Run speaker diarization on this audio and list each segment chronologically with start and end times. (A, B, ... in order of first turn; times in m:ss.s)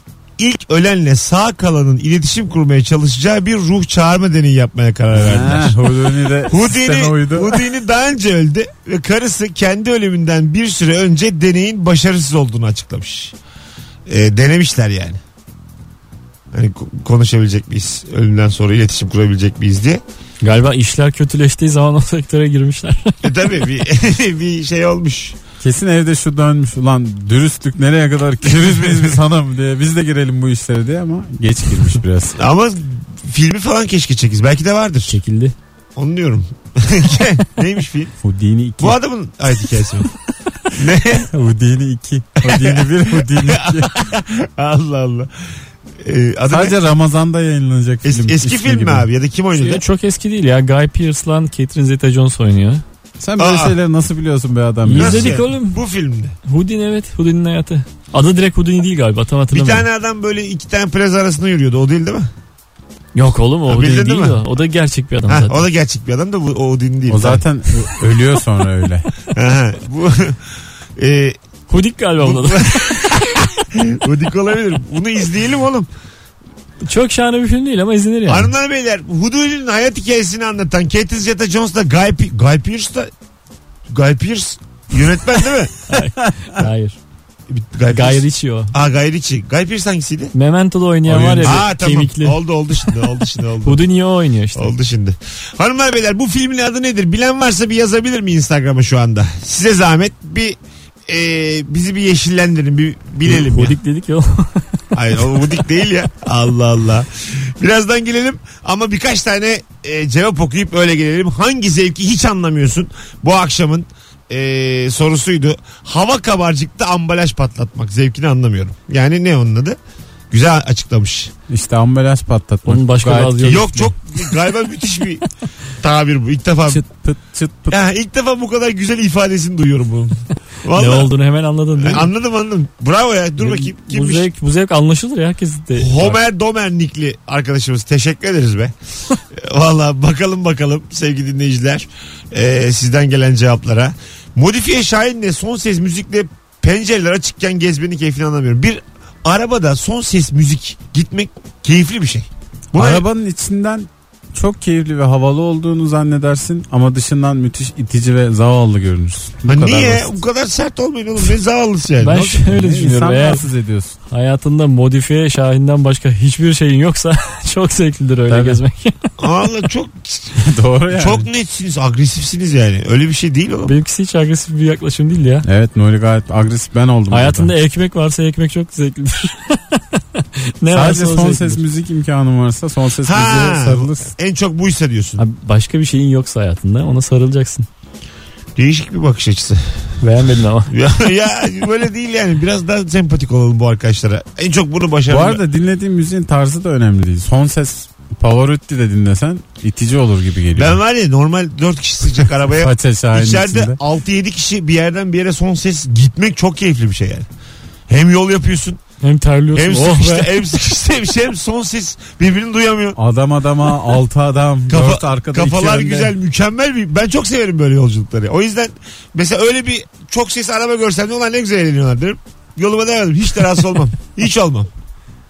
0:00.4-0:13.4 A
0:05.1-0:07.6 B
0:14.1-0:15.2 A
0:16.5-0:20.0 A
0:20.4-0:23.2 C
0:23.2-0:25.4 A
0:25.6-0:32.4 B
0:28.4-0:29.2 A
0:32.4-0:35.2 A
0:35.1-0:35.5 C
0:36.0-0:38.1 A
0:38.2-0:39.0 B
0:38.8-0:40.1 A
0:40.7-0:41.3 A
0:41.3-0:44.0 B
0:42.4-0:45.3 A
0:46.0-0:46.8 A
0:46.5-0:49.1 B
0:48.0-0:49.8 A
0:49.6-0:52.8 C
0:53.2-0:55.4 B
0:53.4-0:53.8 A
0:54.8-0:55.8 C
0:55.0-0:56.4 A
0:56.4-0:59.9 C
0:59.5-1:02.3 A
1:03.2-1:05.6 C
1:03.7-1:04.4 A
1:05.3-1:07.4 A
1:07.1-1:09.1 B
1:09.3-1:10.4 A
1:11.0-1:11.4 A
1:11.7-1:13.2 C
1:12.2-1:15.9 A
1:16.8-1:18.5 C
1:18.3-1:23.1 A
1:23.9-1:25.8 A
1:25.9-1:27.0 C
1:27.5-1:30.3 A
1:27.9-1:28.7 C
1:30.3-1:32.4 C
1:31.1-1:31.6 B
1:31.4-1:33.8 A
1:33.6-1:34.7 C
1:34.6-1:40.6 A
1:41.1-1:43.8 A
1:43.2-1:44.7 C
1:44.9-1:59.8 A
2:00.3-2:01.3 A
2:01.5-2:03.8 B
2:02.7-2:03.9 C
2:03.4-2:05.2 A
2:05.8-2:06.8 A
2:06.7-2:07.8 B
2:07.7-2:11.1 A
2:10.7-2:12.1 C
2:11.8-2:14.3 A
2:13.4-2:16.2 C
2:15.8-2:18.7 A
2:19.3-2:33.0 A
2:32.8-2:40.1 B
2:39.5-2:42.3 A
2:42.0-2:43.5 C
2:42.2-2:44.0 B
2:44.1-2:49.1 C
2:48.3-2:48.6 B
2:49.2-2:50.4 A
2:50.4-2:51.3 B
2:50.9-2:53.7 A
2:53.7-2:55.4 C
2:55.4-2:57.5 B
2:57.1-3:01.6 C
3:00.7-3:04.1 B
3:03.0-3:05.2 A
3:05.2-3:07.7 C
3:08.6-3:09.8 A
3:10.0-3:10.7 C
3:10.7-3:15.4 A
3:15.1-3:20.8 B
3:20.6-3:27.3 A
3:22.6-3:23.8 B
3:27.9-3:28.8 A
3:29.0-3:30.4 C
3:29.5-3:33.0 A
3:33.0-3:36.1 B
3:34.7-3:44.7 A